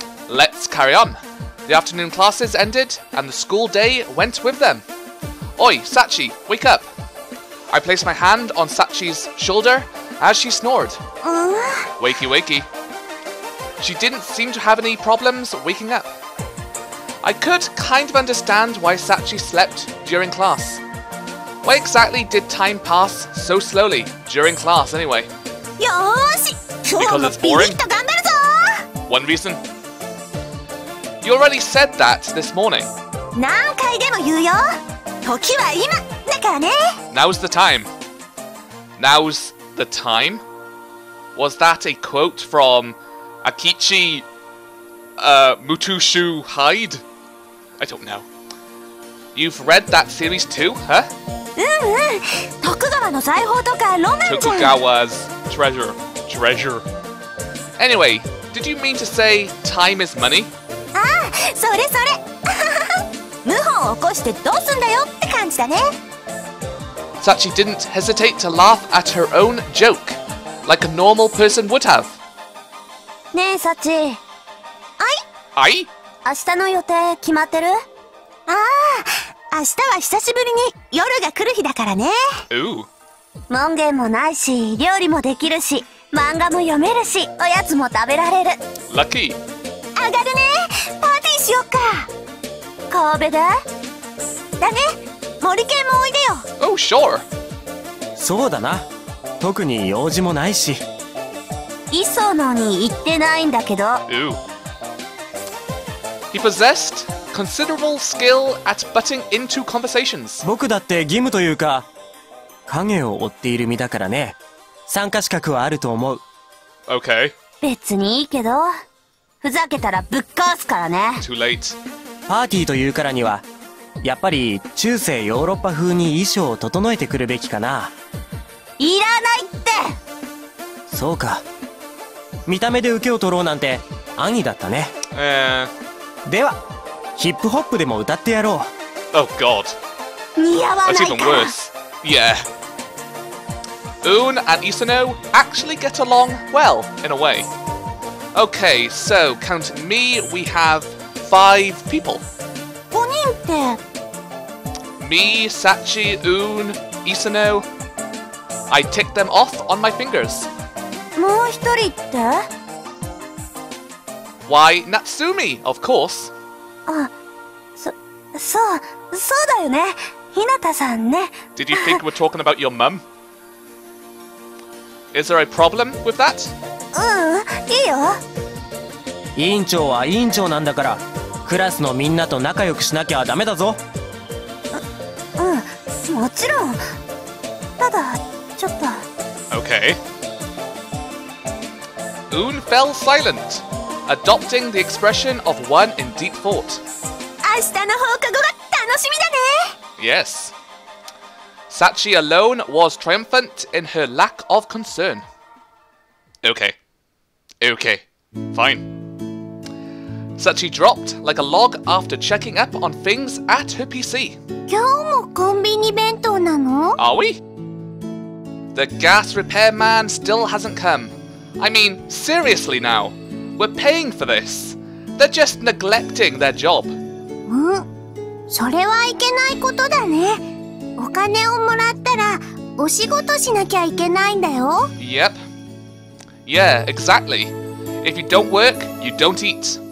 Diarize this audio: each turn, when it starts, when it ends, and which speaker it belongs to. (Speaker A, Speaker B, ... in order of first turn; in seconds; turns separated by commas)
Speaker A: 0.3-4.8, Speaker A: 5.6-6.9, Speaker A: 7.7-11.0, Speaker B: 11.2-11.9, Speaker A: 12.0-12.7, Speaker A: 13.8-16.1, Speaker A: 17.2-20.8, Speaker A: 21.6-25.3, Speaker B: 25.8-28.9, Speaker A: 26.9-27.8, Speaker A: 29.1-29.6, Speaker A: 31.2-32.9, Speaker B: 33.4-37.0, Speaker A: 37.1-37.9, Speaker A: 39.0-40.4, Speaker A: 41.4-44.3, Speaker A: 45.2-47.0, Speaker A: 47.8-48.3, Speaker A: 49.4-51.1, Speaker B: 51.6-54.7, Speaker A: 54.2-56.9, Speaker A: 57.8-60.5, Speaker B: 60.9-66.0, Speaker A: 67.2-72.2, Speaker B: 73.3-74.2, Speaker A: 75.5-75.9, Speaker B: 76.2-77.8, Speaker B: 78.5-82.4, Speaker A: 82.5-82.9, Speaker B: 83.5-88.6, Speaker A: 88.9-89.4, Speaker B: 90.0-92.1, Speaker B: 92.9-93.5, Speaker B: 94.6-96.5, Speaker A: 96.6-97.2, Speaker C: 98.2-98.9, Speaker C: 99.4-100.8, Speaker B: 101.9-104.0, Speaker A: 104.1-104.4, Speaker A: 106.3-110.5, Speaker C: 110.4-111.9, Speaker C: 112.7-114.4, Speaker C: 114.9-116.2, Speaker A: 116.9-117.3, Speaker B: 117.6-118.7, Speaker B: 119.4-121.2, Speaker A: 121.2-121.8, Speaker C: 122.3-123.5, Speaker C: 124.0-127.9, Speaker B: 128.8-129.8, Speaker C: 130.9-131.4, Speaker C: 132.5-134.9, Speaker A: 135.1-135.7, Speaker C: 136.2-136.6, Speaker C: 137.2-138.7, Speaker A: 139.1-139.8, Speaker B: 140.4-141.5, Speaker A: 140.8-142.5, Speaker A: 144.0-147.5, Speaker A: 148.3-152.2, Speaker B: 152.9-153.8, Speaker A: 155.0-157.7, Speaker A: 158.7-160.5, Speaker B: 161.2-162.5, Speaker A: 164.5-166.3, Speaker B: 167.8-172.0, Speaker A: 171.6-173.0, Speaker A: 175.1-176.5, Speaker B: 176.9-178.2, Speaker C: 179.4-183.8, Speaker B: 185.4-186.9, Speaker B: 187.8-189.0, Speaker A: 189.5-190.0, Speaker A: 192.3-196.8, Speaker B: 197.4-199.8, Speaker A: 200.0-200.5, Speaker A: 201.7-205.2, Speaker A: 206.4-206.8, Speaker A: 207.6-208.9, Speaker A: 210.4-214.4, Speaker B: 214.7-217.0, Speaker A: 217.0-217.4, Speaker A: 218.7-227.0, Speaker B: 227.5-227.9, Speaker B: 228.5-230.4, Speaker B: 231.0-234.9, Speaker A: 235.0-235.4, Speaker A: 236.5-239.8